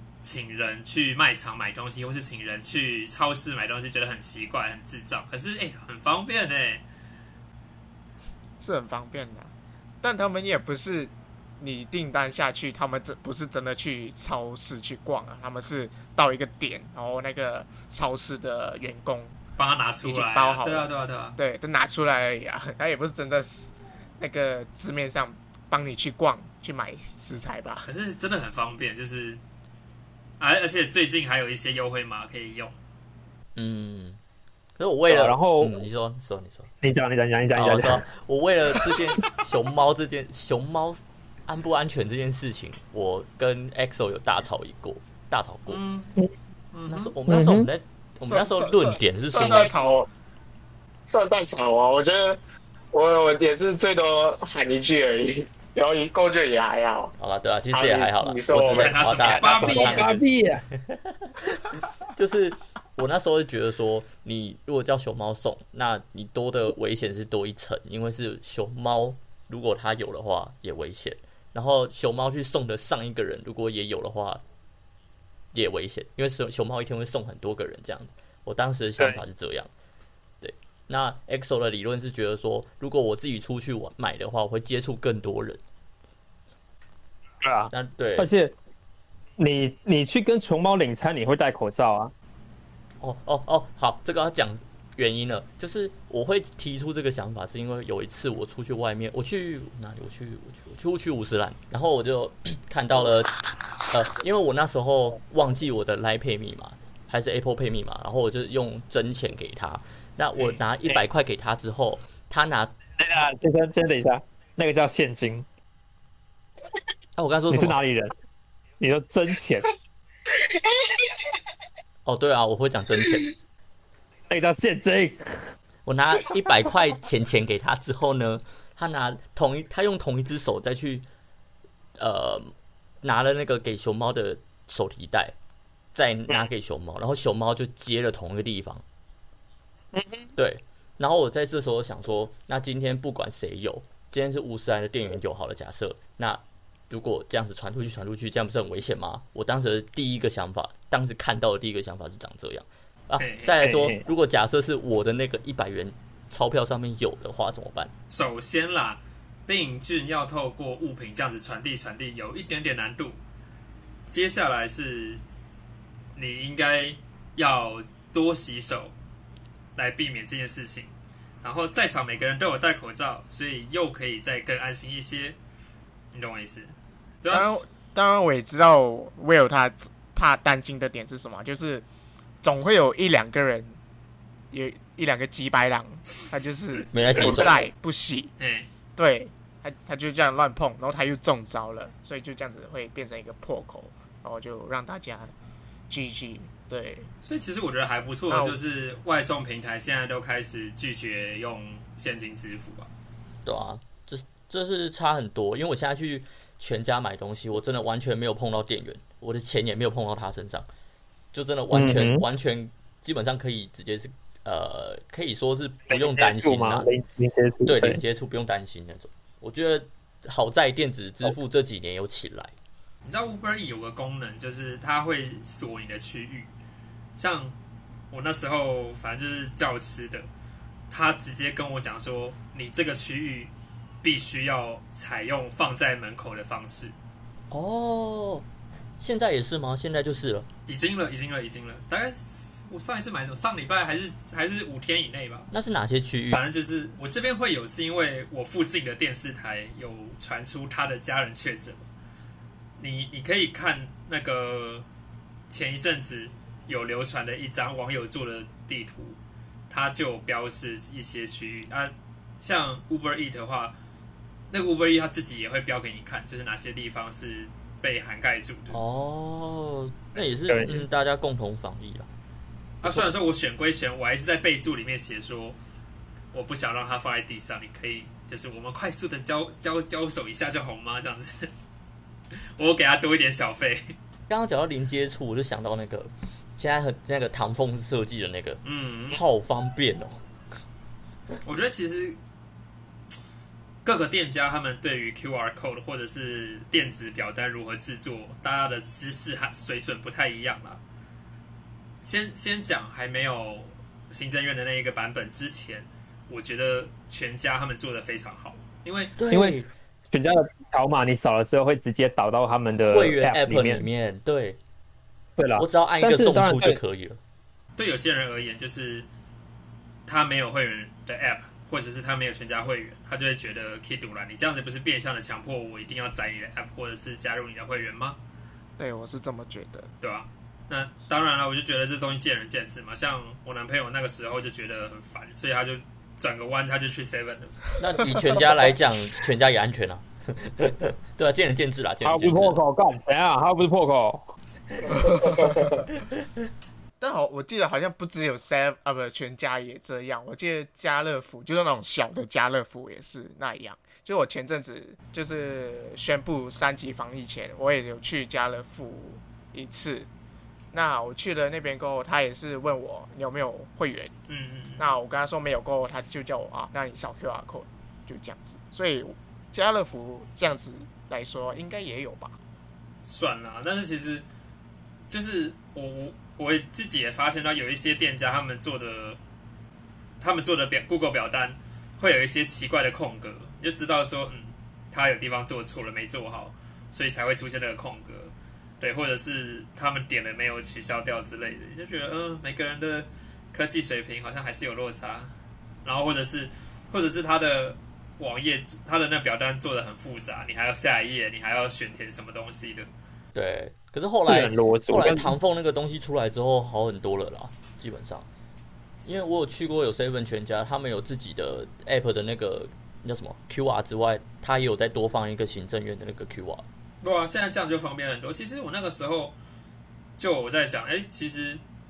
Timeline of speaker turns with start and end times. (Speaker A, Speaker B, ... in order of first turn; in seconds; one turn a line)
Speaker A: 0.2-6.8
Speaker B: 8.6-19.4
Speaker A: 19.6-21.4
Speaker B: 20.0-27.9
Speaker A: 27.9-29.4
Speaker A: 30.4-32.8
Speaker C: 33.6-34.2
Speaker C: 34.8-36.7
Speaker D: 35.1-35.8
Speaker D: 36.8-38.1
Speaker C: 37.5-45.8
Speaker A: 45.7-46.1
Speaker A: 46.7-47.1
Speaker C: 46.9-49.8
Speaker D: 47.3-47.7
Speaker B: 48.3-50.1
Speaker E: 51.1-52.4
Speaker E: 52.9-57.1
Speaker C: 57.2-60.3
Speaker E: 57.7-58.9
Speaker A: 58.6-60.2
Speaker D: 59.5-60.7
Speaker C: 60.9-61.3
Speaker C: 62.1-74.4
Speaker C: 75.5-79.7
Speaker C: 80.4-85.6
Speaker D: 87.4-88.5
Speaker C: 87.7-88.3
Speaker D: 89.4-92.1
Speaker C: 93.0-103.3
Speaker C: 103.9-113.3
Speaker D: 113.0-115.5
Speaker C: 117.2-117.8
Speaker D: 117.5-118.1
Speaker D: 118.8-119.7
Speaker C: 122.1-123.3
Speaker D: 124.3-125.5
Speaker C: 125.8-131.1
Speaker C: 132.0-132.5
Speaker C: 133.0-135.3
Speaker C: 135.9-138.8
Speaker D: 139.9-140.3
Speaker C: 140.4-157.9
Speaker A: 153.2-153.6
Speaker D: 153.6-154.1
Speaker A: 158.1-163.2
Speaker A: 164.1-165.2
Speaker A: 166.2-168.9
Speaker A: 169.8-175.4
Speaker A: 176.1-177.6
Speaker B: 177.3-181.8
Speaker B: 182.4-183.8
Speaker B: 184.5-188.3
Speaker C: 186.9-187.7
Speaker A: 188.4-188.7
Speaker B: 188.9-195.3
Speaker B: 195.9-197.1
Speaker A: 197.2-202.9
Speaker B: 198.3-198.6
Speaker C: 203.4-210.7
Speaker C: 211.3-216.9
Speaker D: 211.7-212.2
Speaker D: 215.9-218.0
Speaker C: 217.7-222.5
Speaker A: 223.0-226.5
Speaker A: 227.2-227.6
Speaker A: 228.1-230.3
Speaker A: 230.9-233.5
Speaker A: 234.0-236.9
Speaker C: 237.5-238.4
Speaker C: 239.0-240.5
Speaker A: 240.7-245.5
Speaker C: 245.5-246.4
Speaker A: 246.3-251.9
Speaker A: 252.8-254.8
Speaker A: 255.5-259.2
Speaker A: 259.7-263.8
Speaker A: 264.5-268.8
Speaker C: 268.7-272.1
Speaker D: 270.5-270.8
Speaker A: 272.8-275.6
Speaker C: 272.8-273.1
Speaker A: 276.3-281.5
Speaker A: 282.3-283.9
Speaker C: 284.3-290.2
Speaker A: 288.6-289.2
Speaker A: 291.4-292.2
Speaker A: 293.8-300.8
Speaker A: 302.0-309.2
Speaker C: 309.2-309.7
Speaker D: 309.3-313.8
Speaker C: 312.8-314.6
Speaker D: 315.4-316.8
Speaker C: 315.6-317.2
Speaker A: 317.8-319.1
Speaker A: 320.1-328.2
Speaker B: 328.8-329.9
Speaker A: 330.0-337.7
Speaker C: 337.8-342.6
Speaker D: 342.0-344.3
Speaker B: 344.9-345.9
Speaker B: 347.0-360.1
Speaker B: 360.7-364.1
Speaker A: 364.3-364.9
Speaker B: 364.8-372.4
Speaker A: 373.1-374.2
Speaker A: 375.1-379.2
Speaker A: 380.2-395.3
Speaker A: 395.8-402.9
Speaker C: 403.3-408.3
Speaker D: 404.3-405.3
Speaker C: 409.1-416.6
Speaker A: 417.0-419.4
Speaker A: 420.2-421.6